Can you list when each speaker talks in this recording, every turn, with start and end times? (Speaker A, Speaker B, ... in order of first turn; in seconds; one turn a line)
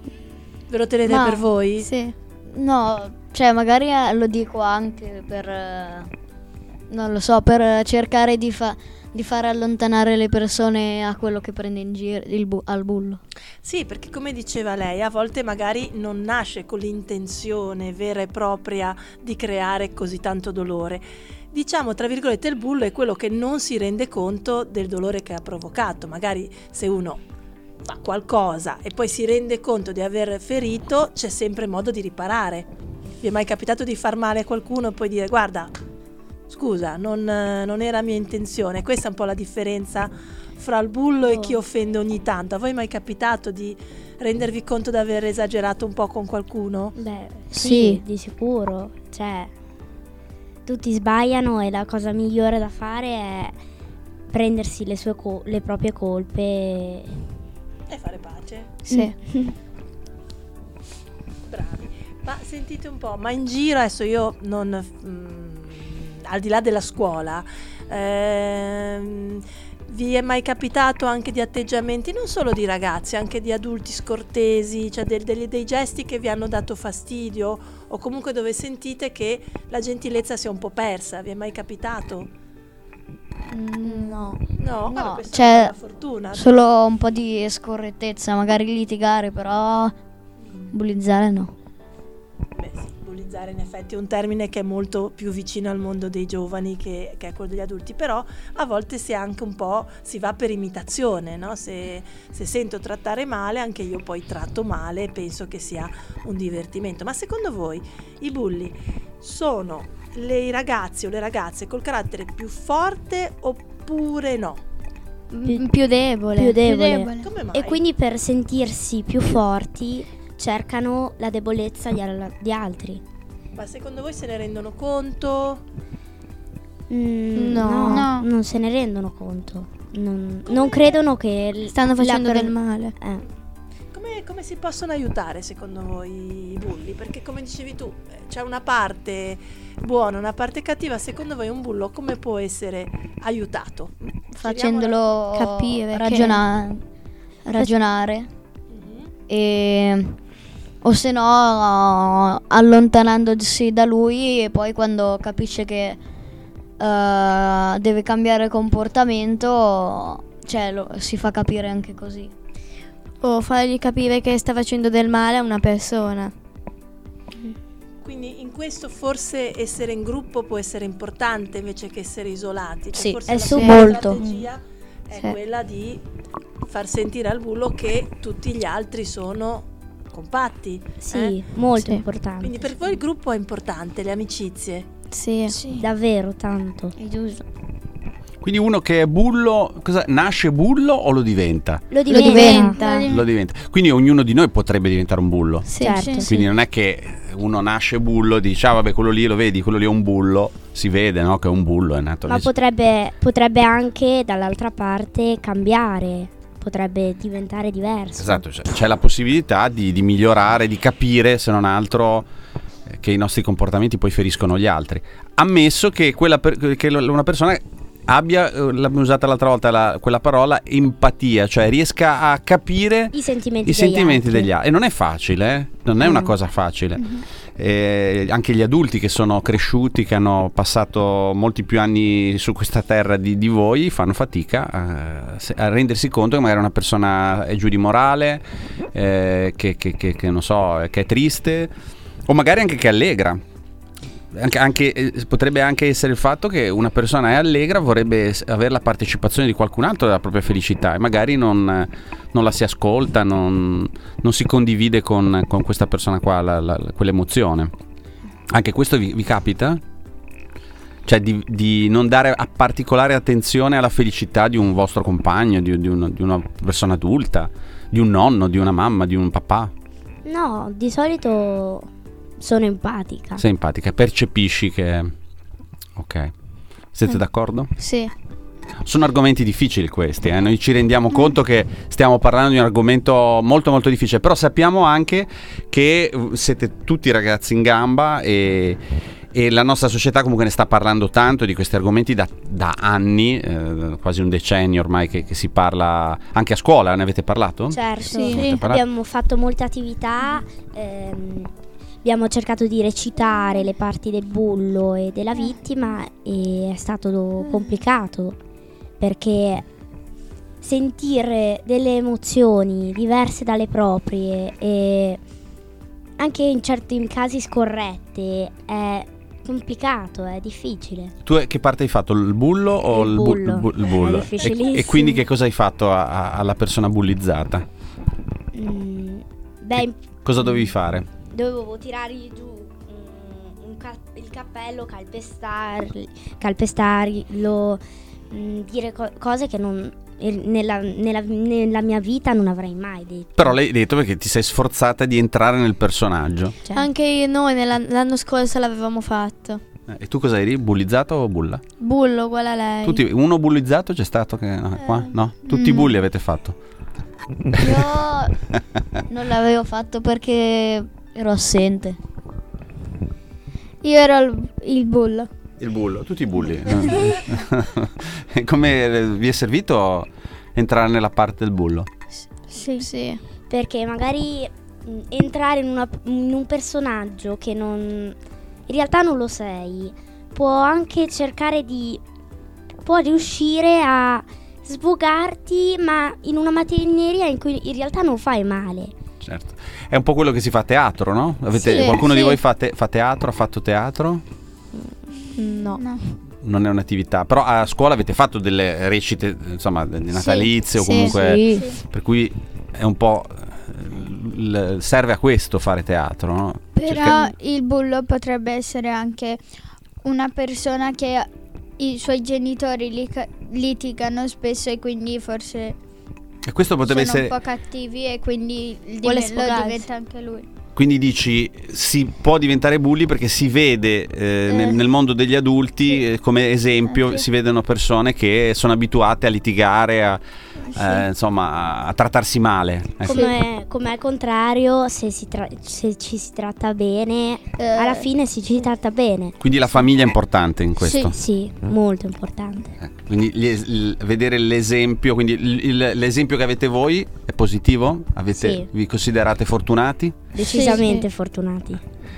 Speaker A: 0.7-1.9
Speaker B: 1.1-1.5
Speaker C: 1.8-2.1
Speaker B: 2.5-6.1
Speaker B: 6.9-13.2
Speaker A: 13.6-27.2
Speaker A: 27.9-32.7
Speaker A: 33.2-35.7
Speaker A: 36.5-47.0
Speaker D: 41.3-41.6
Speaker D: 47.0-49.5
Speaker B: 47.6-48.0
Speaker C: 47.6-48.0
Speaker D: 50.7-53.5
Speaker D: 54.3-57.2
Speaker A: 57.9-58.8
Speaker C: 58.9-59.1
Speaker D: 58.9-59.5
Speaker A: 61.5-82.3
Speaker C: 83.5-84.4
Speaker B: 83.8-84.3
Speaker A: 84.4-86.6
Speaker B: 84.9-85.8
Speaker B: 86.3-90.0
Speaker B: 90.7-91.5
Speaker A: 92.6-114.6
Speaker C: 115.3-116.6
Speaker D: 116.3-123.0
Speaker E: 116.6-117.3
Speaker A: 117.2-117.8
Speaker A: 123.5-125.6
Speaker D: 126.9-133.3
Speaker C: 127.3-128.1
Speaker E: 127.9-128.3
Speaker A: 130.5-131.0
Speaker C: 131.7-132.9
Speaker A: 133.9-145.1
Speaker B: 144.3-146.8
Speaker C: 145.3-146.4
Speaker B: 147.4-148.3
Speaker A: 148.7-149.1
Speaker B: 149.3-150.2
Speaker B: 150.8-156.0
Speaker B: 156.8-162.3
Speaker C: 163.2-166.3
Speaker A: 168.0-176.0
Speaker C: 172.9-174.4
Speaker D: 173.3-174.1
Speaker B: 173.6-174.2
Speaker A: 176.6-181.4
Speaker D: 181.0-182.7
Speaker C: 181.8-182.0
Speaker A: 182.4-184.9
Speaker C: 185.1-185.6
Speaker E: 185.5-185.8
Speaker D: 185.7-187.0
Speaker C: 187.0-187.4
Speaker F: 188.4-191.9
Speaker D: 191.9-192.8
Speaker C: 192.1-193.1
Speaker B: 192.1-193.0
Speaker E: 192.2-193.3
Speaker F: 193.1-195.7
Speaker C: 195.7-196.1
Speaker D: 195.8-196.4
Speaker E: 195.9-196.3
Speaker F: 196.2-202.5
Speaker D: 202.3-208.4
Speaker F: 208.2-212.3
Speaker F: 212.9-241.7
Speaker D: 223.1-224.5
Speaker F: 242.3-243.4
Speaker F: 244.3-257.7
Speaker F: 258.5-259.8
Speaker F: 261.1-269.7
Speaker D: 270.3-271.9
Speaker D: 272.4-273.4
Speaker F: 273.4-275.1
Speaker F: 275.9-276.3
Speaker F: 276.9-277.7
Speaker C: 277.8-278.1
Speaker F: 278.8-298.8
Speaker D: 297.7-301.5
Speaker E: 298.1-298.6
Speaker D: 302.0-308.4
Speaker D: 309.0-309.6
Speaker D: 310.6-315.2
Speaker D: 316.2-321.1
Speaker F: 321.2-327.7
Speaker D: 322.9-325.2
Speaker D: 328.5-330.7
Speaker F: 329.8-331.1
Speaker D: 331.3-343.5
Speaker F: 343.4-346.6
Speaker C: 346.7-349.6
Speaker F: 349.9-351.6
Speaker C: 351.8-353.0
Speaker F: 352.8-356.6
Speaker E: 355.5-355.9
Speaker B: 357.6-358.4
Speaker B: 359.1-362.0
Speaker E: 363.8-365.3
Speaker F: 365.6-371.9
Speaker C: 372.5-373.2
Speaker E: 372.5-372.9
Speaker D: 373.5-378.2
Speaker D: 378.7-382.0
Speaker D: 382.9-388.9
Speaker F: 389.2-394.2
Speaker D: 391.6-392.0
Speaker E: 391.6-392.3
Speaker C: 395.4-395.8
Speaker E: 395.8-396.2
Speaker F: 396.4-407.3
Speaker B: 400.2-401.6
Speaker E: 400.9-401.8
Speaker E: 406.8-409.4
Speaker E: 410.0-415.8
Speaker F: 416.4-417.4
Speaker E: 416.8-420.5
Speaker C: 419.0-419.9
Speaker F: 420.8-433.3
Speaker D: 433.0-439.4
Speaker E: 437.6-438.0
Speaker F: 439.4-441.2
Speaker E: 440.9-441.1
Speaker D: 440.9-442.7
Speaker F: 442.8-450.3
Speaker D: 448.4-448.7
Speaker D: 450.3-451.8
Speaker E: 450.5-450.9
Speaker C: 450.5-451.0